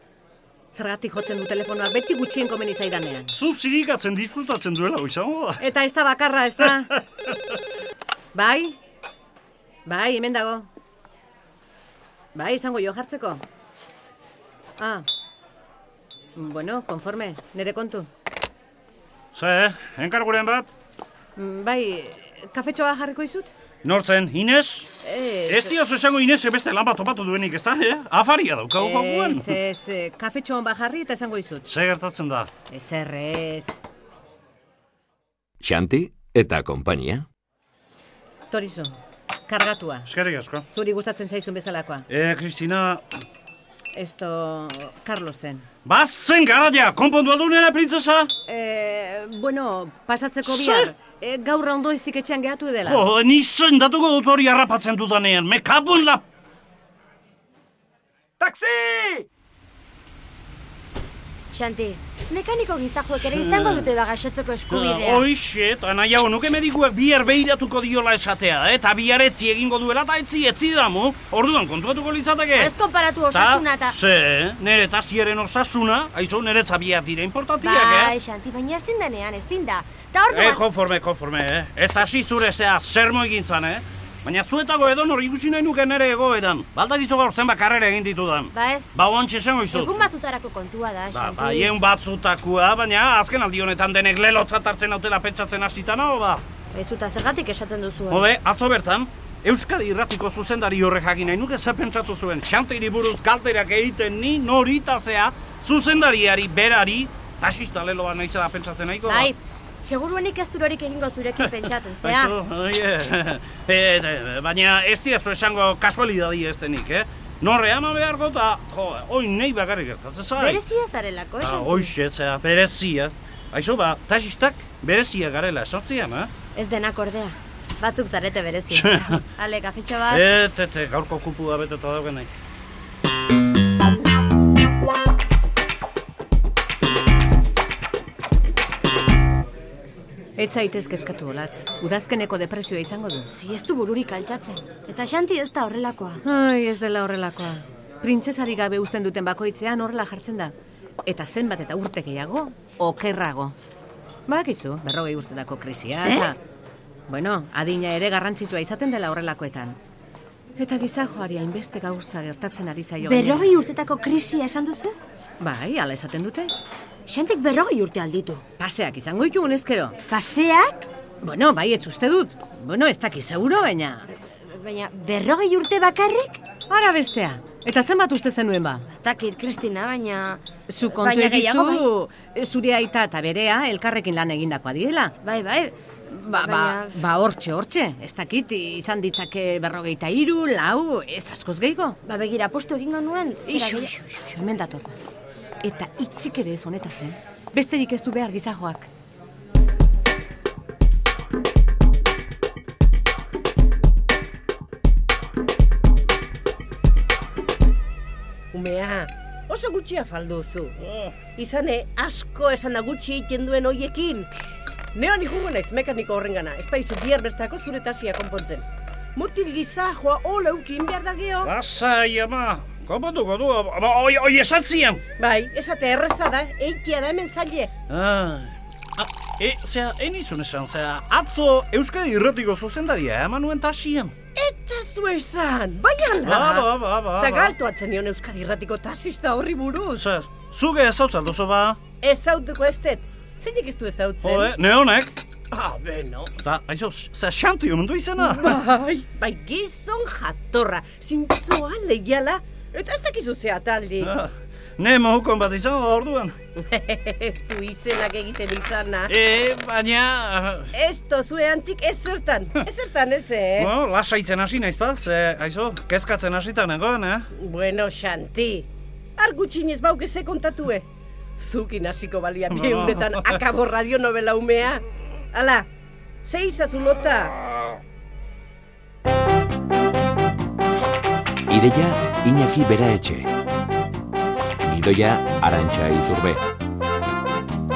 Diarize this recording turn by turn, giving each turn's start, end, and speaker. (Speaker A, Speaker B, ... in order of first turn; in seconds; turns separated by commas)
Speaker A: 0.7-3.3, Speaker B: 3.3-5.6, Speaker A: 5.6-6.9, Speaker A: 8.3-8.8, Speaker A: 9.8-10.7, Speaker A: 12.3-13.4, Speaker A: 14.8-15.1, Speaker A: 16.4-18.1, Speaker B: 19.3-20.7, Speaker A: 21.4-23.5, Speaker B: 23.8-24.9, Speaker A: 25.0-25.7, Speaker B: 25.5-29.5, Speaker A: 28.8-31.6, Speaker B: 31.6-32.5, Speaker A: 32.7-33.8, Speaker C: 35.6-37.3, Speaker A: 38.5-40.1, Speaker B: 40.0-40.6, Speaker A: 40.7-42.1, Speaker B: 42.1-43.0, Speaker A: 43.9-45.6, Speaker B: 45.8-48.3, Speaker A: 48.5-53.0, Speaker B: 50.4-50.9, Speaker B: 52.8-56.2, Speaker D: 61.5-65.3, Speaker B: 63.2-63.9, Speaker B: 64.7-72.7, Speaker D: 72.5-73.9, Speaker B: 73.3-78.1, Speaker D: 77.6-80.6, Speaker B: 80.3-89.9, Speaker D: 88.5-88.9, Speaker D: 89.7-91.7, Speaker B: 91.1-96.4, Speaker D: 96.7-98.3, Speaker B: 98.1-109.3, Speaker D: 109.0-112.3, Speaker B: 111.4-120.6, Speaker D: 120.4-121.9, Speaker B: 121.4-126.3, Speaker D: 126.5-130.2, Speaker B: 128.7-129.2, Speaker B: 130.1-132.3, Speaker A: 140.4-143.3, Speaker D: 143.4-146.2, Speaker A: 146.2-150.5, Speaker A: 151.0-153.5, Speaker A: 154.3-156.4, Speaker D: 156.0-156.3, Speaker A: 157.1-159.8, Speaker A: 160.6-163.5, Speaker D: 163.0-164.9, Speaker A: 165.4-166.5, Speaker D: 167.1-168.4, Speaker A: 168.6-170.0, Speaker D: 170.1-170.9, Speaker A: 171.2-174.1, Speaker D: 174.4-176.4, Speaker A: 176.7-178.8, Speaker D: 178.9-181.9, Speaker A: 180.7-185.2, Speaker D: 185.2-185.8, Speaker A: 186.1-192.0, Speaker D: 186.3-187.0, Speaker D: 192.1-193.9, Speaker A: 193.4-194.9, Speaker A: 195.6-198.9, Speaker E: 208.5-210.7, Speaker B: 210.8-211.1, Speaker E: 211.3-214.3, Speaker E: 214.9-218.6, Speaker E: 219.2-221.5, Speaker B: 221.4-225.0, Speaker E: 225.2-227.7, Speaker B: 227.9-234.1, Speaker E: 234.3-240.1, Speaker B: 236.2-237.5, Speaker B: 239.9-241.8, Speaker E: 242.0-244.5, Speaker B: 244.2-245.2, Speaker E: 245.5-246.3, Speaker B: 246.4-248.6, Speaker E: 248.2-254.1, Speaker B: 254.0-256.3, Speaker E: 256.6-259.1, Speaker B: 259.1-260.7, Speaker E: 260.7-263.7, Speaker B: 263.6-267.3, Speaker E: 267.4-270.8, Speaker E: 271.4-275.7, Speaker B: 272.5-273.4, Speaker E: 276.2-277.4, Speaker C: 281.5-283.3, Speaker C: 284.6-286.4